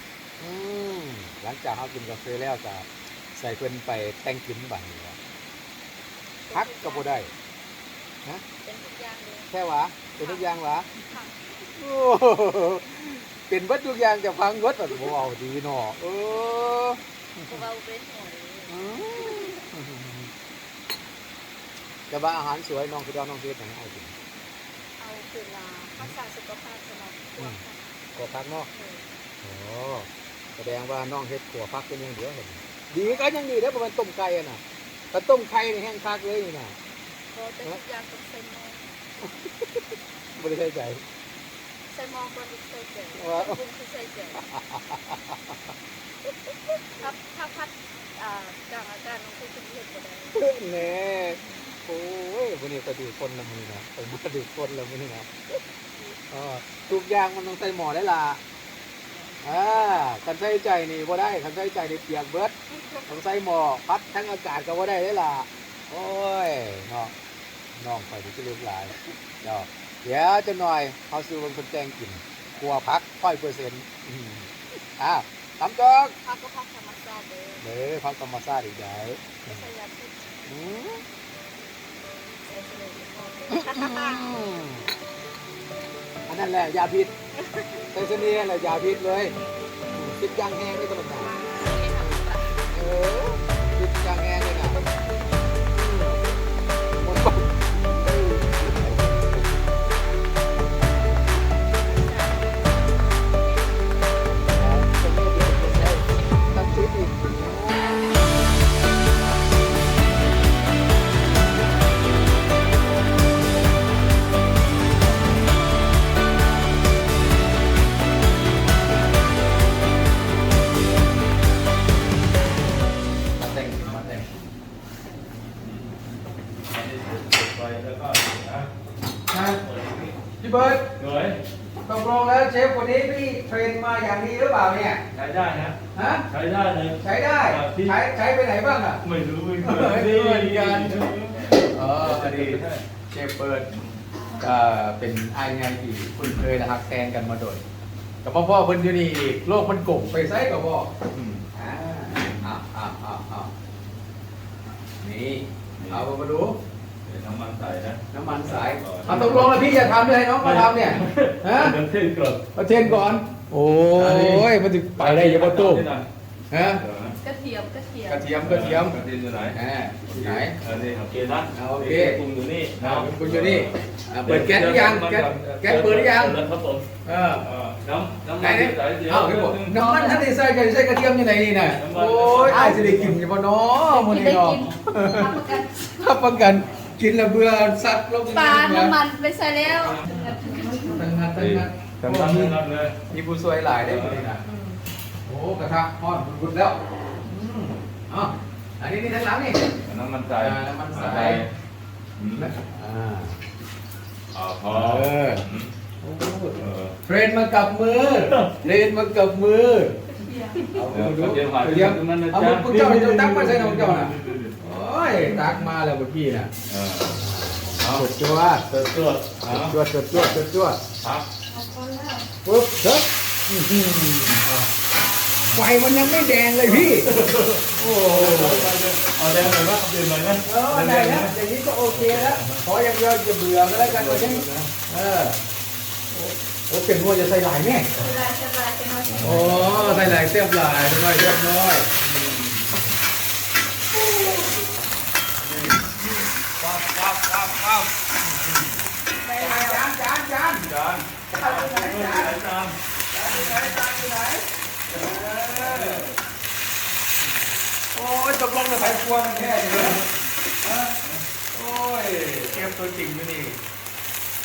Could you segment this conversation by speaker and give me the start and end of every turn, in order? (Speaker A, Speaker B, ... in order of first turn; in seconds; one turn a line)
Speaker A: 0.4-5.2
Speaker B: 6.4-7.3
Speaker A: 6.5-7.3
Speaker B: 8.6-9.5
Speaker A: 9.5-10.9
Speaker B: 10.2-11.4
Speaker A: 11.7-17.6
Speaker B: 17.5-19.6
Speaker A: 18.7-20.3
Speaker A: 22.1-24.1
Speaker B: 25.0-27.8
Speaker A: 28.2-28.7
Speaker B: 28.7-29.1
Speaker A: 29.4-36.8
Speaker B: 37.3-38.9
Speaker A: 40.4-41.0
Speaker B: 41.9-44.5
Speaker A: 43.1-43.6
Speaker A: 44.5-45.4
Speaker B: 47.0-50.5
Speaker A: 50.4-55.3
Speaker A: 56.3-58.4
Speaker A: 59.4-67.1
Speaker A: 67.8-76.2
Speaker B: 76.2-77.7
Speaker A: 77.6-79.7
Speaker B: 79.5-80.6
Speaker A: 80.5-81.0
Speaker B: 82.5-84.3
Speaker A: 83.5-84.9
Speaker A: 86.3-87.1
Speaker B: 87.4-88.1
Speaker A: 87.9-89.3
Speaker A: 89.9-91.3
Speaker B: 91.1-92.7
Speaker A: 91.9-94.8
Speaker B: 94.5-95.3
Speaker A: 95.8-96.2
Speaker B: 95.9-96.3
Speaker A: 97.0-99.5
Speaker B: 101.7-104.5
Speaker A: 104.6-107.8
Speaker A: 123.4-124.3
Speaker C: 125.6-125.9
Speaker C: 126.7-128.7
Speaker A: 129.3-129.6
Speaker C: 129.6-130.2
Speaker A: 130.4-130.9
Speaker C: 131.0-131.4
Speaker A: 131.8-135.0
Speaker C: 135.1-138.0
Speaker A: 135.9-136.3
Speaker A: 137.0-139.0
Speaker C: 139.0-142.8
Speaker A: 139.6-140.9
Speaker A: 141.5-143.7
Speaker C: 143.7-144.0
Speaker A: 144.4-147.6
Speaker A: 148.2-150.9
Speaker C: 151.1-151.5
Speaker A: 151.5-153.5
Speaker A: 155.0-156.6
Speaker C: 155.8-156.1
Speaker C: 157.1-163.1
Speaker A: 158.1-161.8
Speaker A: 162.6-165.9
Speaker C: 163.9-166.1
Speaker A: 166.5-166.8
Speaker C: 166.7-167.2
Speaker B: 167.2-168.3
Speaker A: 168.1-169.0
Speaker C: 168.4-169.6
Speaker A: 169.5-170.6
Speaker C: 170.1-179.8
Speaker A: 171.5-172.2
Speaker A: 172.8-176.4
Speaker A: 177.1-177.5
Speaker A: 178.4-185.4
Speaker B: 179.7-180.3
Speaker C: 181.7-183.2
Speaker B: 182.5-182.9
Speaker B: 183.8-186.0
Speaker A: 185.9-189.0
Speaker B: 188.3-191.0
Speaker C: 189.7-190.3
Speaker A: 190.5-192.6
Speaker C: 191.4-193.0
Speaker A: 193.1-194.4
Speaker C: 193.8-194.3
Speaker B: 194.4-194.8
Speaker A: 195.3-199.7
Speaker C: 199.8-201.5
Speaker A: 200.4-201.5
Speaker C: 202.2-202.5
Speaker A: 202.4-203.4
Speaker C: 204.3-205.7
Speaker A: 204.7-205.4
Speaker A: 206.0-210.0
Speaker C: 206.6-207.0
Speaker C: 208.3-208.5
Speaker B: 210.2-210.7
Speaker A: 210.7-216.5
Speaker C: 210.9-214.6
Speaker C: 215.2-215.7
Speaker C: 216.7-217.2
Speaker A: 217.1-218.7
Speaker C: 217.8-218.1
Speaker C: 218.7-219.8
Speaker A: 219.4-220.8
Speaker C: 221.0-221.3
Speaker B: 221.5-222.3
Speaker A: 222.4-224.4
Speaker C: 224.4-224.7
Speaker B: 225.2-225.7
Speaker A: 225.5-227.1
Speaker C: 226.6-231.3
Speaker A: 227.7-228.7
Speaker A: 230.4-235.4
Speaker C: 231.9-232.6
Speaker C: 233.7-234.7
Speaker A: 236.1-238.0
Speaker B: 237.9-240.2
Speaker C: 239.1-240.2
Speaker A: 239.2-242.7
Speaker C: 242.1-242.4
Speaker A: 243.9-244.5
Speaker B: 244.2-244.5
Speaker A: 245.4-245.8
Speaker A: 246.6-248.7
Speaker C: 246.7-247.7
Speaker B: 249.2-249.9
Speaker A: 249.4-250.7
Speaker C: 250.6-252.8
Speaker A: 251.3-252.4
Speaker A: 253.1-256.1
Speaker C: 255.1-256.1
Speaker A: 257.9-260.0
Speaker A: 260.6-261.0
Speaker A: 261.5-263.6